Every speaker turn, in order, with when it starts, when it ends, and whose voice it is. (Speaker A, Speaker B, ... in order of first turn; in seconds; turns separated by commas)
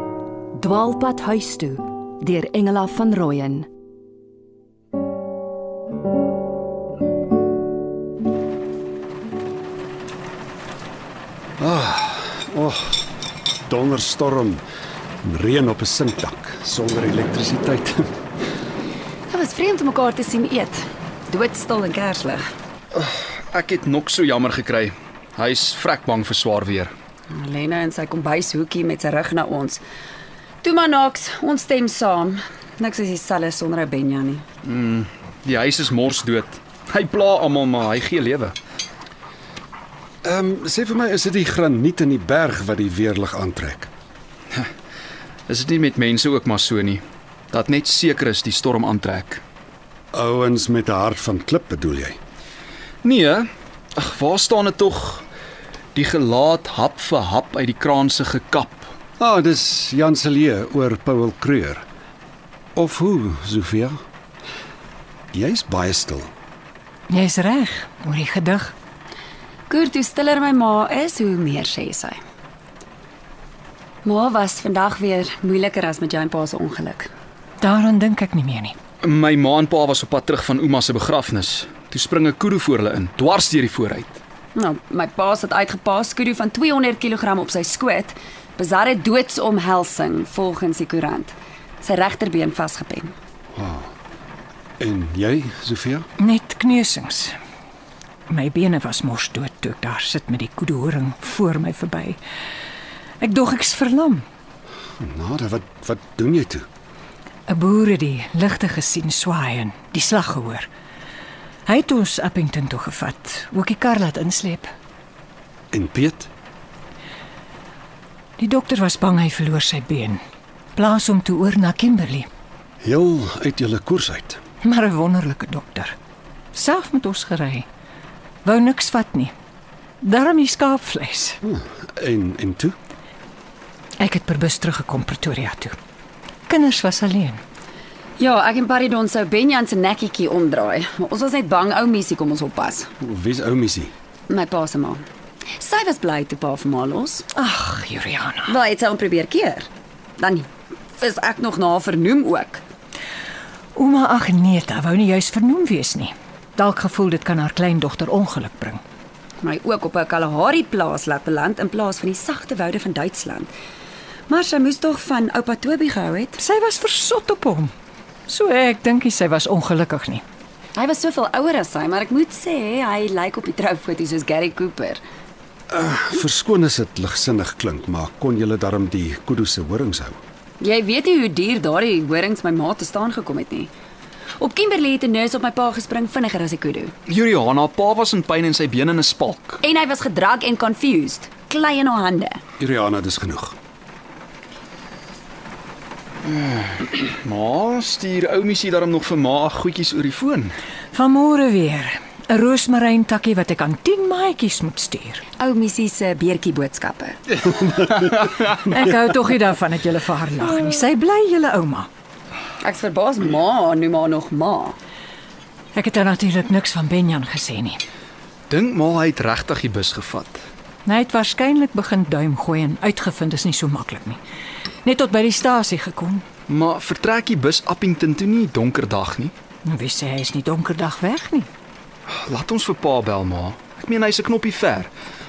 Speaker A: 0.5-3.7, Speaker B: 11.6-13.0, Speaker B: 13.7-14.6, Speaker B: 15.2-18.1, Speaker C: 19.3-22.4, Speaker D: 22.9-26.9, Speaker C: 27.3-29.8, Speaker C: 30.6-34.4, Speaker D: 34.6-38.5, Speaker B: 40.2-43.9, Speaker D: 45.5-47.0, Speaker D: 47.5-49.4, Speaker B: 50.1-52.2, Speaker D: 53.0-55.2, Speaker D: 55.9-58.9, Speaker B: 59.2-61.8, Speaker B: 62.8-64.0, Speaker B: 65.3-66.3, Speaker E: 67.1-68.7, Speaker C: 69.7-72.2, Speaker C: 74.0-77.1, Speaker E: 77.6-78.7, Speaker D: 79.0-84.2, Speaker C: 84.5-93.1, Speaker B: 93.5-93.9, Speaker B: 94.8-96.0, Speaker E: 96.2-97.3, Speaker E: 98.3-102.2, Speaker E: 103.2-104.2, Speaker B: 105.0-106.7, Speaker E: 107.5-110.7, Speaker E: 111.7-114.7, Speaker B: 115.7-116.3, Speaker E: 118.4-120.2, Speaker E: 120.8-122.3, Speaker B: 122.8-124.4, Speaker E: 124.6-125.9, Speaker E: 126.5-127.7, Speaker E: 128.4-129.3, Speaker E: 130.0-131.4, Speaker B: 131.4-132.8, Speaker E: 134.0-135.8, Speaker E: 136.5-137.4, Speaker C: 138.2-142.9, Speaker B: 143.0-143.9, Speaker C: 144.3-145.0, Speaker C: 145.6-147.2, Speaker E: 147.3-148.5, Speaker C: 148.5-152.6, Speaker E: 153.7-158.8, Speaker C: 159.4-163.5, Speaker C: 164.3-166.4, Speaker E: 166.4-167.7, Speaker E: 168.3-170.2, Speaker C: 170.8-175.0, Speaker B: 175.7-180.2, Speaker C: 180.6-183.7, Speaker C: 184.4-186.9, Speaker D: 187.1-189.6, Speaker C: 189.6-192.4, Speaker B: 192.6-193.5, Speaker D: 196.2-200.5, Speaker E: 200.9-205.2, Speaker C: 205.4-207.6, Speaker E: 208.6-211.9, Speaker C: 212.6-214.8, Speaker E: 215.7-217.8, Speaker D: 218.5-220.4, Speaker E: 220.8-224.2, Speaker E: 224.8-226.2, Speaker D: 226.5-229.3, Speaker E: 229.6-231.5, Speaker D: 232.1-234.9